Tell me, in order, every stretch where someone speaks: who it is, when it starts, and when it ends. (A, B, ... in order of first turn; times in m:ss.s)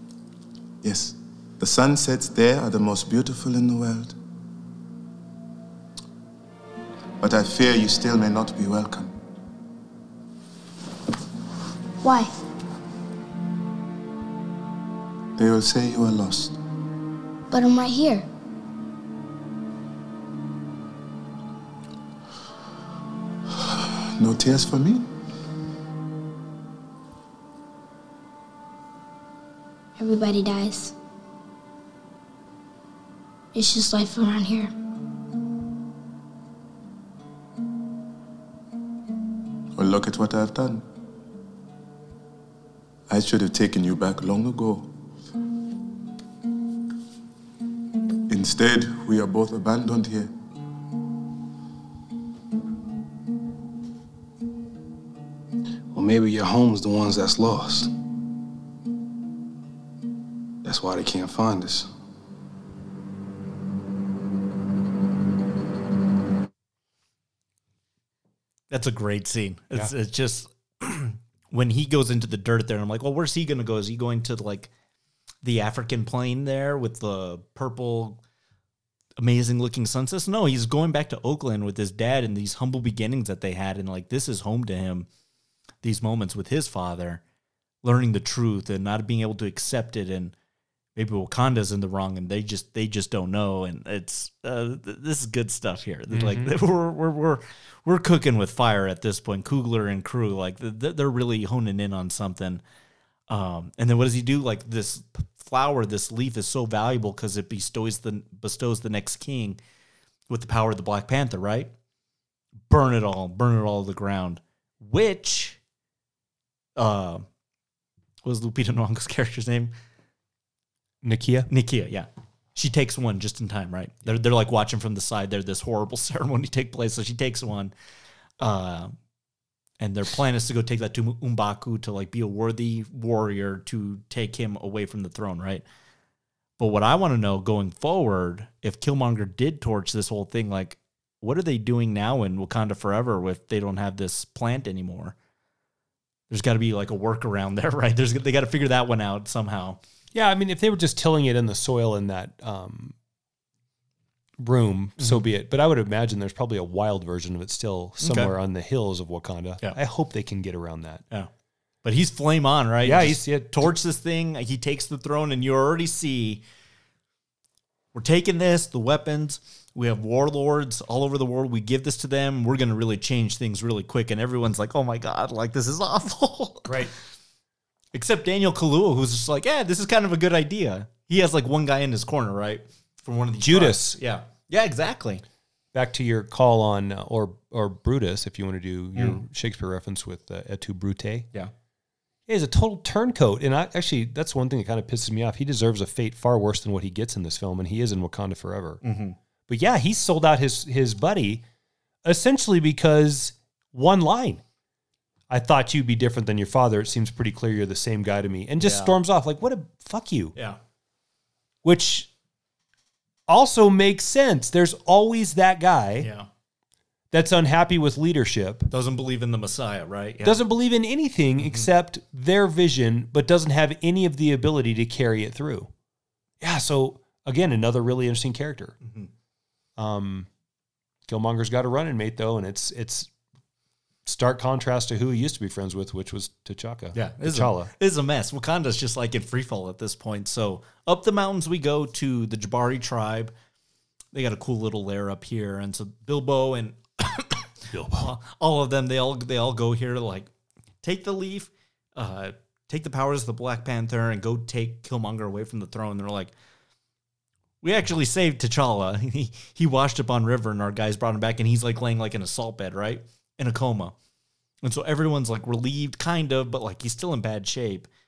0:00.8-0:04.1 A
0:07.2-0:09.1 A
0:12.0-0:12.3 B
0:15.4-0:16.5 A
0:17.5-0:18.2 B
0:24.2-0:25.0 A
0:30.0-0:30.9 B
0:33.5-0:34.7 B
0:39.7-0:40.8 A
0:43.1-0:44.9 A
0:48.3-0:50.3 A
0:55.9-0:57.9 C
1:00.6-1:01.9 C
1:08.7-1:14.7 D
1:15.4-1:18.2 D
1:19.2-1:25.1 D
1:25.8-1:27.2 D
1:27.8-1:30.3 D
1:31.0-1:42.6 D
1:36.1-1:36.5 E
1:43.3-1:49.6 D
1:50.3-1:51.7 D
1:52.7-1:55.6 D
1:56.8-1:57.2 D
1:58.2-1:59.7 D
2:01.0-2:01.5 E
2:01.5-2:07.7 D
2:08.4-2:08.9 D
2:09.8-2:15.6 D
2:16.6-2:25.1 D
2:26.3-2:29.8 D
2:30.1-2:32.9 E
2:34.4-2:41.0 E
2:38.0-2:38.3 D
2:41.8-2:46.4 D
2:42.8-2:43.7 E
2:47.9-2:56.8 D
2:56.6-2:56.9 E
2:57.9-3:05.2 D
3:03.4-3:04.0 E
3:05.7-3:11.3 E
3:12.3-3:18.8 E
3:18.8-3:19.2 D
3:19.5-3:21.4 E
3:22.0-3:24.4 E
3:25.3-3:30.3 E
3:28.6-3:29.0 D
3:31.6-3:32.1 E
3:33.3-3:36.1 E
3:36.0-3:36.3 D
3:37.1-3:38.7 E
3:38.7-3:40.4 D
3:40.2-3:45.7 E
3:41.4-3:41.7 D
3:46.4-3:48.7 E
3:48.8-3:49.1 D
3:49.8-3:50.3 E
3:51.1-3:53.1 E
3:54.0-3:57.7 E
3:56.9-4:03.3 D
4:04.1-4:07.4 D
4:07.7-4:08.1 E
4:07.9-4:10.3 D
4:10.8-4:16.3 D
4:17.6-4:23.9 D
4:24.6-4:27.9 D